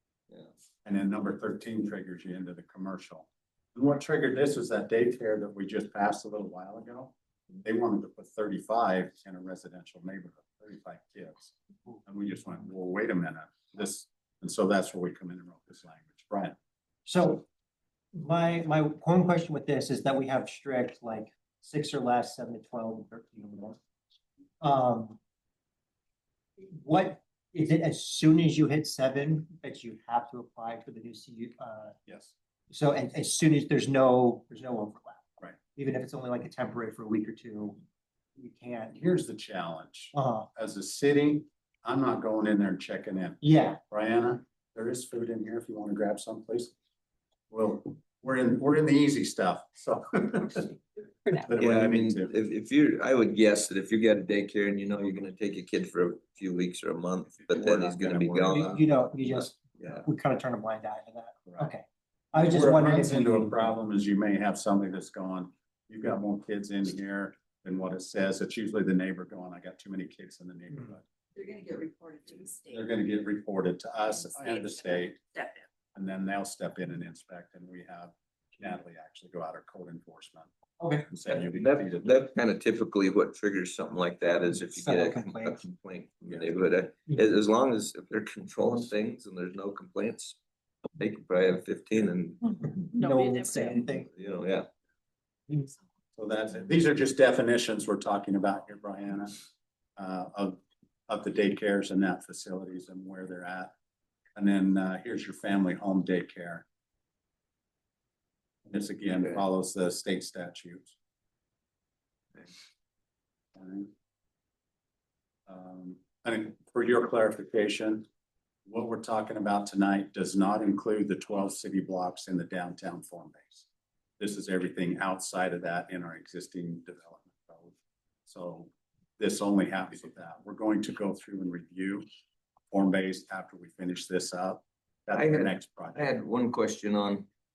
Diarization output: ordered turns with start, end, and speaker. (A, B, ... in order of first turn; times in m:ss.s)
0:00.8-0:16.6 A
0:17.0-0:17.4 B
0:18.1-0:23.8 B
0:24.6-0:25.2 B
0:26.6-0:32.0 B
0:32.1-0:32.3 A
0:32.7-0:37.8 B
0:38.4-0:39.0 B
0:38.9-0:46.7 A
0:40.1-0:40.5 B
0:43.4-0:43.8 B
0:47.5-0:50.7 A
0:51.3-0:52.3 A
0:51.6-1:00.0 C
0:57.3-0:58.4 A
0:58.4-1:03.6 B
1:02.4-1:11.0 A
1:11.4-1:12.6 D
1:12.7-1:15.2 A
1:15.9-1:20.5 A
1:20.8-1:21.1 B
1:21.1-1:22.1 A
1:21.3-1:30.4 C
1:24.7-1:25.6 B
1:30.9-1:32.6 C
1:32.9-1:34.1 B
1:33.0-1:33.8 D
1:34.0-1:34.7 C
1:35.5-1:35.7 B
1:36.2-1:39.4 A
1:40.0-1:43.7 A
1:44.4-1:46.6 A
1:48.6-1:51.0 A
1:53.6-1:53.9 A
1:55.5-1:58.1 A
1:58.7-2:03.6 A
2:04.2-2:07.8 A
2:08.3-2:12.0 A
2:12.7-2:16.0 A
2:15.1-2:17.3 C